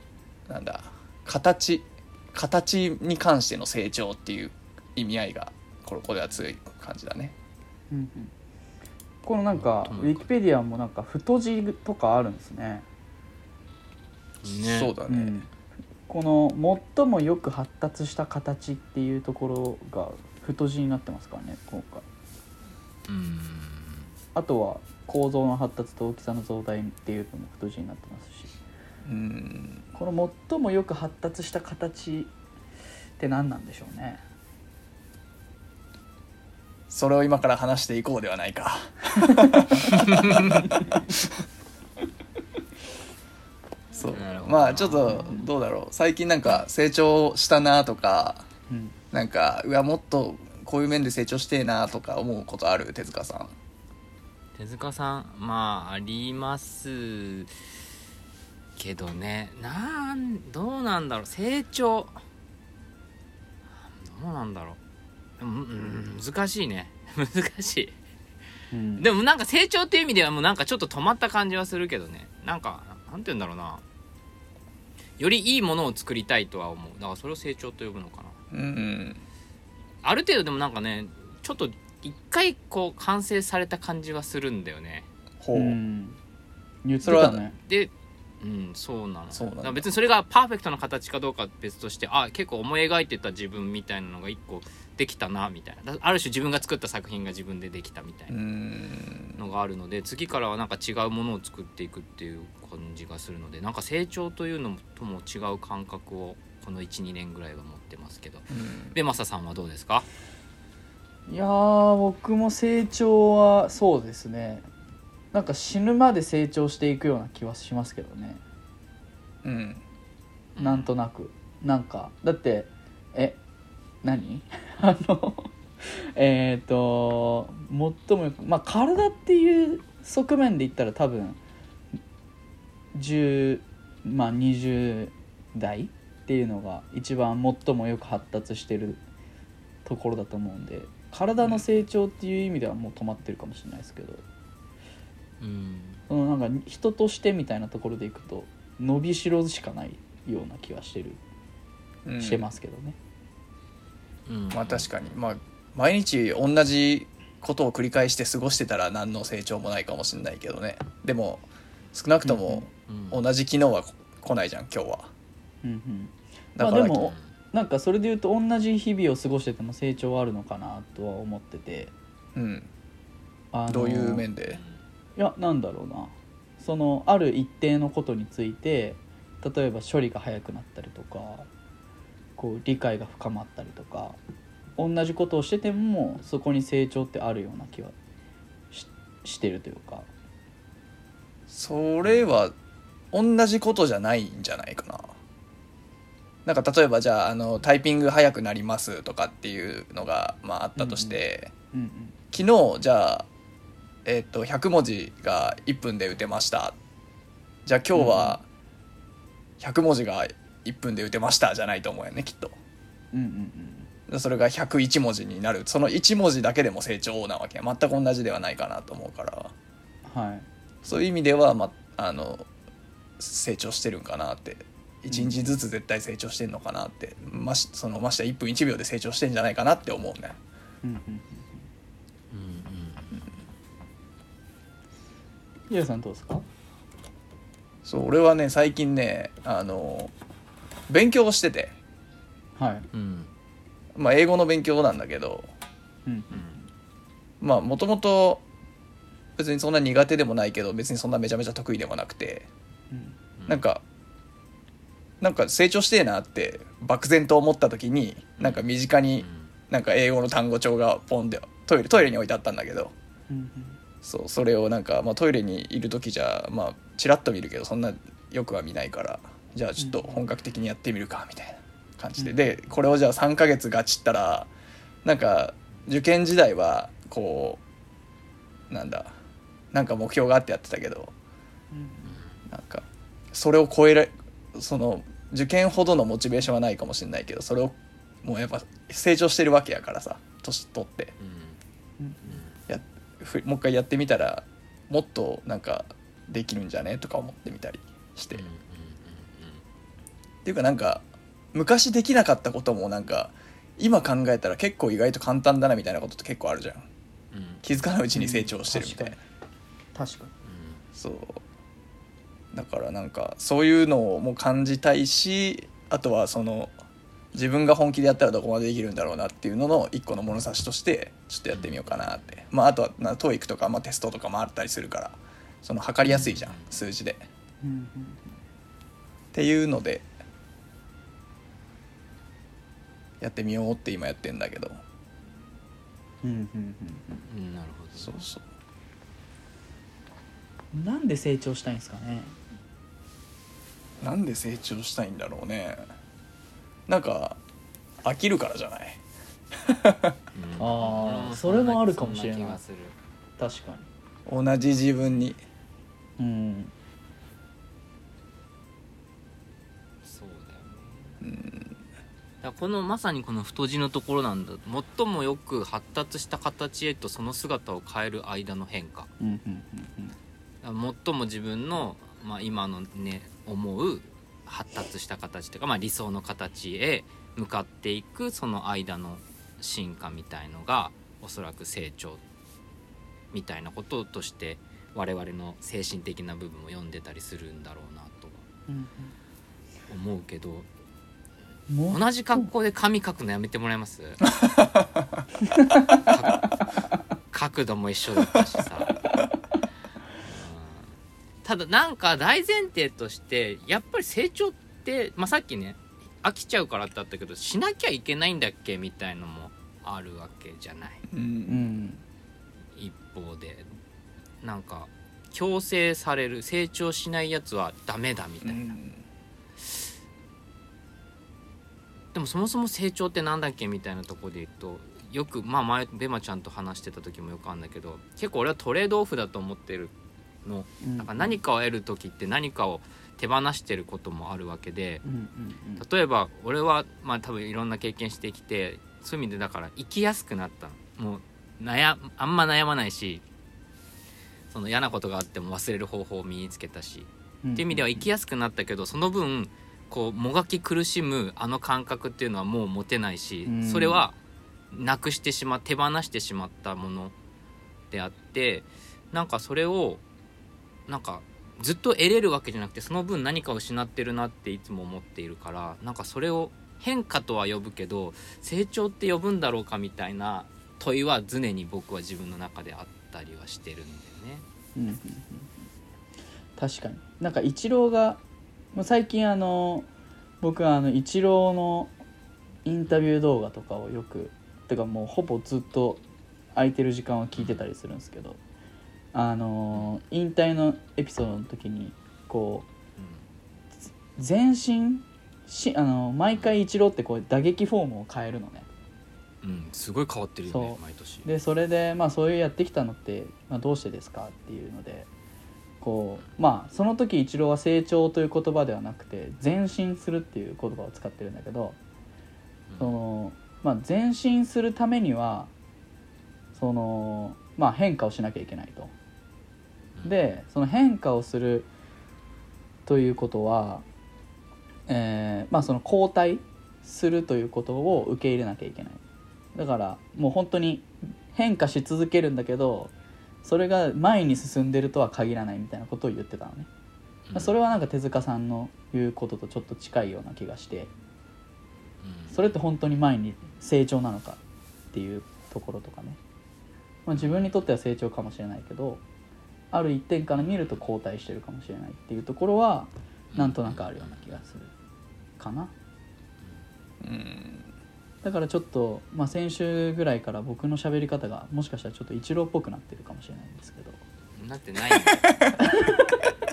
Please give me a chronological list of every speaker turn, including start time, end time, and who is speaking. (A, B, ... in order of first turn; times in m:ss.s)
0:00.5-0:07.4 A
0:07.9-0:08.3 B
0:09.2-0:12.8 B
0:09.5-0:10.3 C
0:14.4-0:14.9 C
0:14.6-0:15.4 A
0:15.1-0:15.5 B
0:16.1-0:22.0 B
0:23.1-0:24.1 C
0:24.4-0:28.5 B
0:29.0-0:29.8 A
0:29.9-0:32.3 B
0:33.2-0:34.2 B
0:36.9-0:41.3 A
0:39.2-0:39.6 B
0:39.8-0:40.7 C
0:43.9-0:48.5 A
0:44.0-0:45.3 C
0:45.0-0:45.5 B
0:48.7-0:49.0 B
0:49.1-0:53.5 A
0:54.6-0:57.5 C
0:58.8-1:02.2 C
1:03.8-1:04.8 C
1:05.4-1:08.0 C
1:08.7-1:09.1 B
1:09.0-1:13.8 C
1:15.2-1:18.4 C
1:18.5-1:19.2 A
1:20.0-1:25.1 C
1:25.4-1:25.8 A
1:25.5-1:26.2 B
1:26.8-1:27.6 B
1:27.0-1:27.4 A
1:27.6-1:38.4 C
1:29.3-1:29.8 A
1:38.3-1:39.4 A
1:39.4-1:50.1 C
1:48.5-1:48.9 A
1:51.3-1:54.7 B
1:55.3-1:58.4 B
1:59.4-1:59.8 A
2:00.6-2:00.9 C
2:00.6-2:03.4 B
2:04.0-2:11.4 B
2:13.0-2:19.0 B
2:19.8-2:24.2 B
2:25.4-2:26.0 C
2:26.1-2:31.2 B
2:32.1-2:32.5 A
2:32.2-2:33.0 B
2:34.3-2:34.9 C
2:34.5-2:41.4 A
2:41.9-2:45.1 A
2:42.2-2:42.6 B
2:42.9-2:43.2 C
2:45.6-2:51.9 B
2:46.6-2:47.1 A
2:52.4-2:52.7 A
2:53.5-2:54.3 B
2:53.7-2:54.6 A
2:54.5-2:54.8 C
2:55.2-3:01.5 B
3:02.4-3:04.2 B
3:04.8-3:07.9 B
3:08.7-3:10.1 B
3:11.5-3:12.5 A
3:13.1-3:15.2 A
3:16.4-3:21.5 A
3:20.8-3:21.2 B
3:21.7-3:22.2 B
3:22.3-3:23.3 A
3:24.0-3:26.8 A
3:27.7-3:28.4 A
3:28.0-3:28.4 B
3:29.6-3:32.6 A
3:33.1-3:33.9 B
3:34.1-3:39.5 A
3:40.1-3:40.5 B
3:40.8-3:42.5 A
3:43.2-3:50.4 A
3:45.1-3:45.4 B
3:50.8-3:51.6 B
3:52.3-3:53.3 C
3:55.7-3:56.4 B
3:57.8-4:00.1 A
4:00.9-4:01.8 A
4:02.6-4:02.9 B
4:02.9-4:03.3 C
4:04.0-4:05.5 A
4:06.1-4:06.6 B
4:07.4-4:08.4 A
4:09.4-4:12.5 A
4:12.9-4:13.2 B
4:13.4-4:13.6 C
4:13.5-4:13.8 A
4:15.2-4:22.9 A
4:18.4-4:18.7 C
4:19.2-4:19.5 C
4:23.3-4:23.8 B
4:24.0-4:34.5 A
4:29.8-4:30.1 B
4:32.2-4:32.5 B
4:35.0-4:37.6 A
4:38.7-4:39.1 A
4:39.7-4:41.1 A
4:41.7-4:42.2 B
4:42.1-4:42.3 C
4:42.5-4:51.1 A
4:51.2-4:51.6 C
4:52.0-4:52.4 B
4:52.2-4:52.6 C
4:52.7-4:58.5 A
4:58.3-4:59.6 C
5:00.4-5:06.9 A
5:07.3-5:07.6 C
5:07.6-5:09.2 A
5:08.1-5:09.2 B
5:10.0-5:10.3 B
5:10.4-5:10.8 C
5:11.0-5:11.4 A
5:12.5-5:16.7 A
5:17.3-5:27.3 A
5:21.5-5:22.0 C
5:26.0-5:26.8 C
5:27.6-5:28.4 B
5:29.3-5:30.1 A
5:33.2-5:34.8 A
5:36.2-5:37.2 B
5:37.3-5:38.3 C
5:38.0-5:38.4 A
5:40.7-5:42.4 B
5:44.0-5:45.8 A
5:46.9-5:47.4 A
5:48.0-5:49.0 A
5:49.5-5:50.2 A
5:50.4-5:53.0 C
5:50.6-5:52.6 B
5:53.4-5:53.9 B
5:54.3-5:55.4 A
5:56.2-5:56.7 B
6:00.0-6:01.2 C
6:01.2-6:01.8 A
6:02.4-6:09.1 C
6:09.2-6:10.2 B
6:10.6-6:22.2 C
6:23.3-6:28.4 C
6:28.7-6:29.1 B
6:29.9-6:30.7 C
6:31.7-6:32.5 B
6:31.9-6:34.2 C
6:34.4-6:35.0 A
6:35.5-6:35.9 B
6:35.9-6:36.5 C
6:37.3-6:39.0 C
6:40.2-6:51.0 C
6:51.1-6:51.7 A
6:51.5-6:52.0 B
6:52.8-6:53.7 C
6:54.4-6:58.8 C
6:58.4-6:59.0 A
7:02.1-7:09.9 C
7:10.4-7:15.0 C
7:10.8-7:11.4 B
7:15.0-7:15.8 B
7:15.8-7:23.2 C
7:24.5-7:34.2 C
7:27.4-7:28.1 B
7:33.5-7:34.0 B
7:34.7-7:37.2 C
7:37.9-7:40.0 C
7:40.9-7:54.4 C
7:54.8-7:55.5 B
7:56.6-7:58.2 B
7:58.7-7:59.9 B
8:00.4-8:01.9 B
8:02.6-8:06.0 B
8:06.6-8:08.4 B
8:07.4-8:07.7 C
8:09.1-8:12.7 B
8:09.7-8:10.0 C
8:14.2-8:18.7 B
8:19.4-8:21.3 C
8:20.5-8:25.1 B
8:25.8-8:31.8 B
8:32.7-8:33.0 C
8:32.8-8:35.5 B
8:36.6-8:38.9 B
8:40.0-8:41.7 B
8:42.9-8:43.8 B
8:44.9-8:49.0 B
8:49.6-8:52.9 B
8:53.4-8:56.7 B
8:57.3-8:57.5 C
8:57.4-9:00.9 B
9:02.0-9:02.5 C
9:02.3-9:04.4 B
9:04.9-9:06.2 B
9:07.1-9:09.0 B
9:07.2-9:07.5 C
9:09.7-9:14.7 B
9:10.4-9:10.8 C
9:13.3-9:14.4 C
9:15.4-9:15.7 B
9:17.0-9:17.7 A
9:18.2-9:24.0 B
9:24.4-9:25.4 C
9:25.2-9:25.5 A
9:25.7-9:26.0 B